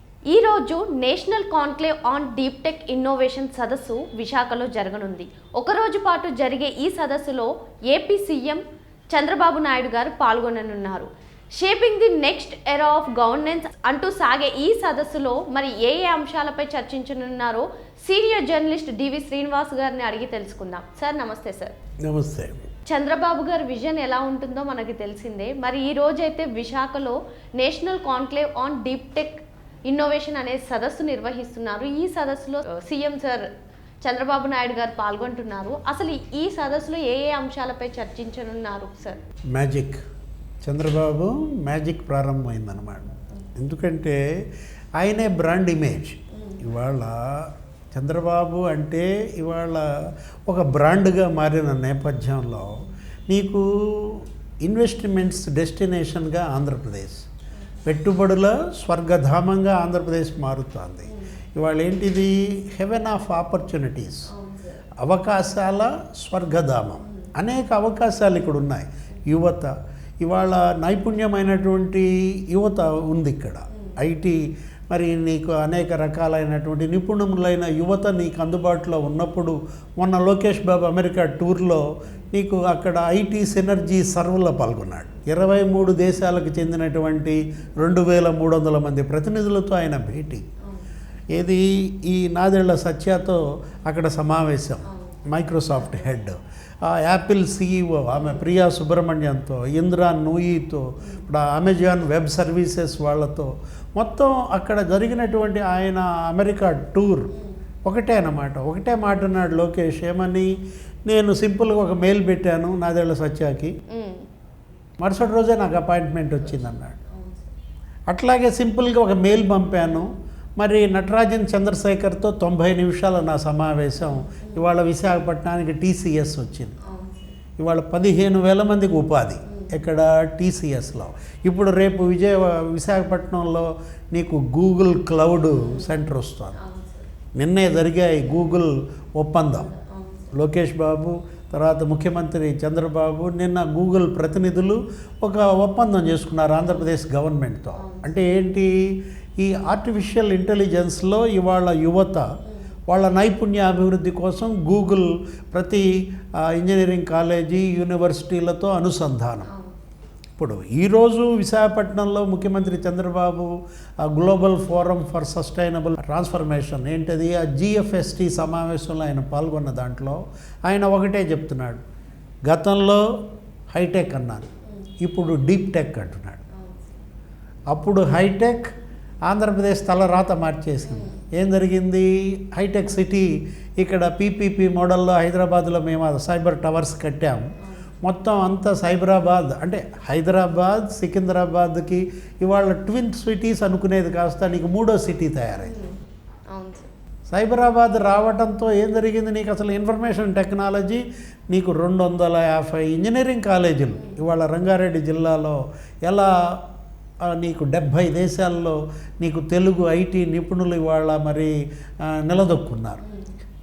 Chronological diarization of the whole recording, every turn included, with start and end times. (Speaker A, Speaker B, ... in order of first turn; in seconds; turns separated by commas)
Speaker A: 0.3-21.7, Speaker B: 22.1-22.7, Speaker A: 22.9-33.5, Speaker A: 34.0-39.2, Speaker B: 39.5-40.0, Speaker B: 40.6-44.2, Speaker B: 45.0-49.8, Speaker B: 50.5-52.7, Speaker B: 53.3-57.2, Speaker B: 57.9-64.2, Speaker A: 64.3-64.8, Speaker B: 65.0-90.5, Speaker B: 91.3-107.3, Speaker A: 94.9-95.2, Speaker B: 107.8-110.5, Speaker B: 111.0-113.7, Speaker A: 113.9-114.3, Speaker B: 115.0-117.0, Speaker A: 117.0-117.5, Speaker B: 118.1-126.7, Speaker A: 124.1-124.6, Speaker A: 126.8-127.4, Speaker B: 127.6-136.6, Speaker A: 135.6-135.9, Speaker A: 136.5-137.1, Speaker B: 137.3-139.7, Speaker A: 139.6-140.3, Speaker B: 140.3-148.7, Speaker A: 147.8-148.1, Speaker B: 149.4-152.2, Speaker B: 152.9-155.8, Speaker B: 156.4-159.5, Speaker A: 159.5-159.7, Speaker B: 160.4-163.5, Speaker B: 164.0-171.8, Speaker B: 172.5-173.0, Speaker B: 173.7-174.5, Speaker B: 175.0-176.4, Speaker A: 176.5-177.0, Speaker B: 177.7-178.7, Speaker B: 179.3-187.5, Speaker A: 180.8-181.2, Speaker B: 188.0-195.8, Speaker A: 195.6-196.0, Speaker A: 196.5-196.9, Speaker B: 197.3-206.3, Speaker B: 207.3-213.0